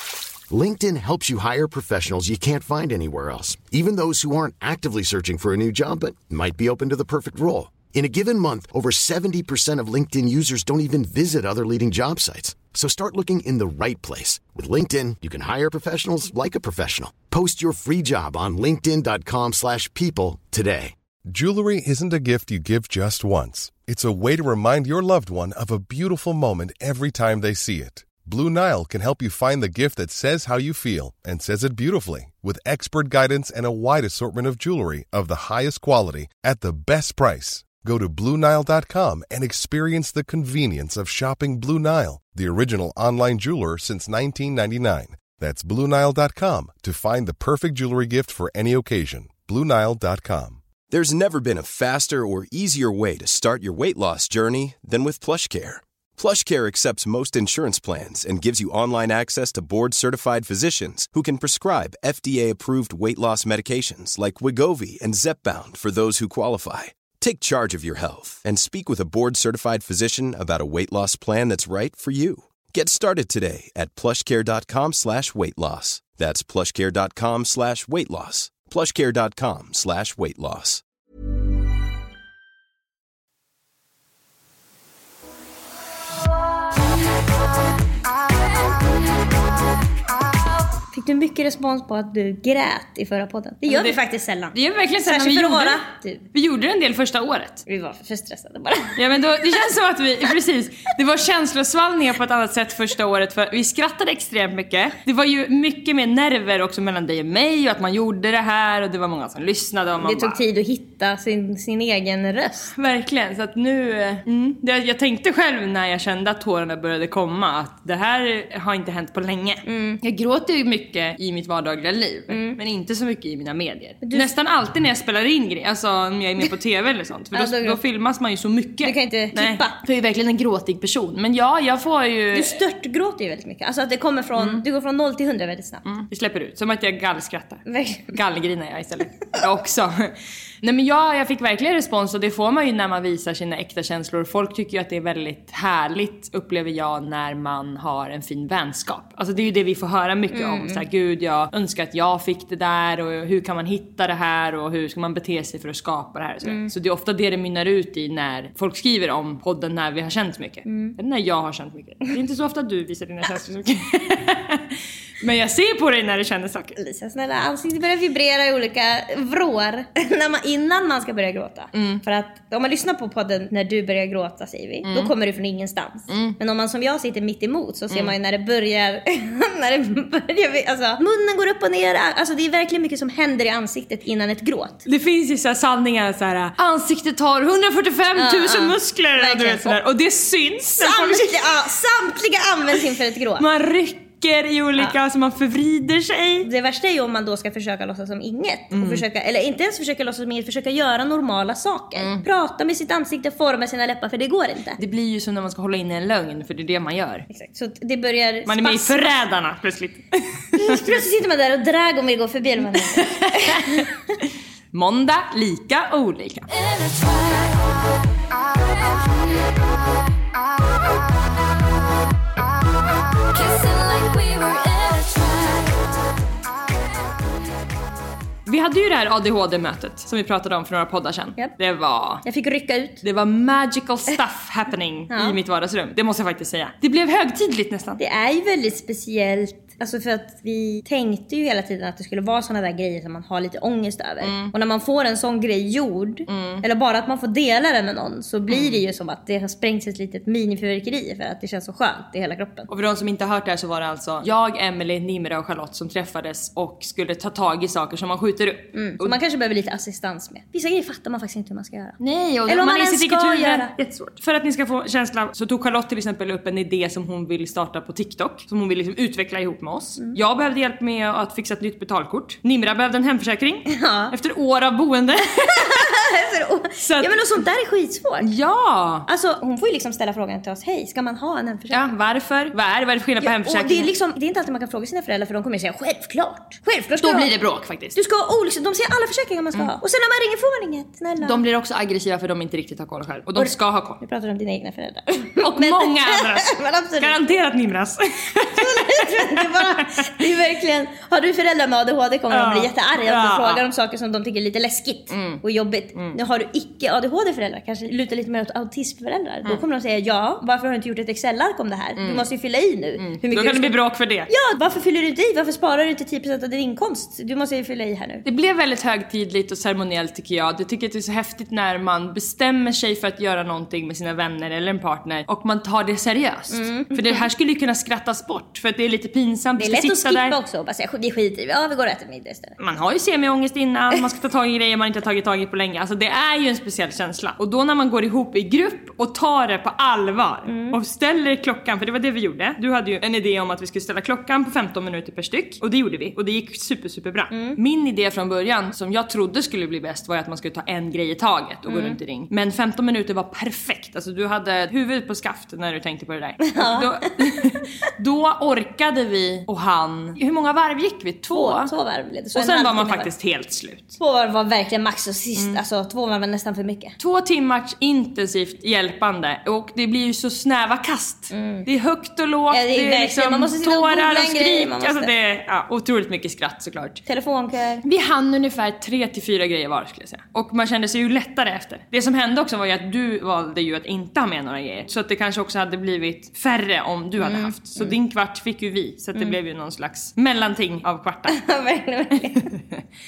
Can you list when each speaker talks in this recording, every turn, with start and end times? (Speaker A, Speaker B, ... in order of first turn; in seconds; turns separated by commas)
Speaker A: 0.5-20.9, Speaker B: 21.3-50.6, Speaker C: 50.9-80.8, Speaker D: 90.9-96.2, Speaker E: 93.7-94.0, Speaker E: 94.5-97.6, Speaker D: 97.7-99.0, Speaker E: 99.0-110.4, Speaker D: 110.0-112.7, Speaker E: 112.7-132.6, Speaker D: 119.6-120.0, Speaker D: 122.3-122.6, Speaker D: 127.3-127.8, Speaker D: 128.8-129.8, Speaker D: 132.3-135.8, Speaker E: 134.4-134.6, Speaker E: 135.8-166.7, Speaker D: 137.7-138.1, Speaker D: 150.3-150.8, Speaker D: 156.4-156.7, Speaker D: 160.7-160.9, Speaker D: 166.8-184.8, Speaker E: 171.7-172.0, Speaker E: 176.1-176.4, Speaker E: 177.9-178.1, Speaker E: 184.9-191.4, Speaker D: 188.2-189.8, Speaker D: 190.7-193.4, Speaker E: 193.4-196.5, Speaker D: 196.4-204.8, Speaker E: 198.7-199.0, Speaker E: 202.0-202.2, Speaker E: 204.8-207.2, Speaker D: 207.3-209.1, Speaker E: 208.5-210.8, Speaker D: 210.6-213.9, Speaker E: 212.9-213.9, Speaker E: 214.7-216.5, Speaker E: 224.1-225.2, Speaker E: 228.4-232.2, Speaker D: 232.2-233.0, Speaker E: 233.0-238.0, Speaker D: 235.1-235.3, Speaker D: 238.0-252.7, Speaker E: 244.2-244.5, Speaker E: 246.3-246.6, Speaker E: 248.5-248.8, Speaker E: 252.7-259.2, Speaker D: 258.7-263.7, Speaker E: 262.0-275.8, Speaker D: 273.7-274.1, Speaker D: 275.5-278.3, Speaker E: 276.8-277.2, Speaker E: 278.2-279.1, Speaker D: 279.1-281.8, Speaker E: 281.7-283.9, Speaker D: 283.2-287.3, Speaker E: 287.0-288.0, Speaker D: 287.9-291.4, Speaker E: 291.2-294.0, Speaker D: 293.4-297.2, Speaker E: 295.4-299.7, Speaker D: 298.5-318.2, Speaker E: 302.3-303.6, Speaker E: 305.1-305.4, Speaker E: 312.0-312.3, Speaker E: 313.0-314.3, Speaker E: 318.2-330.4, Speaker D: 326.5-327.2, Speaker D: 329.6-332.6, Speaker E: 332.6-361.7, Speaker D: 340.4-340.8, Speaker D: 347.3-347.6, Speaker D: 351.7-352.0, Speaker D: 356.4-357.4, Speaker D: 361.3-363.1, Speaker E: 362.3-364.0, Speaker D: 364.0-366.9, Speaker E: 365.4-365.6, Speaker E: 367.0-377.0, Speaker D: 371.3-371.7, Speaker D: 372.5-375.1, Speaker D: 377.1-377.8, Speaker E: 377.8-391.4, Speaker D: 387.2-387.9, Speaker D: 391.3-392.5, Speaker E: 392.5-392.8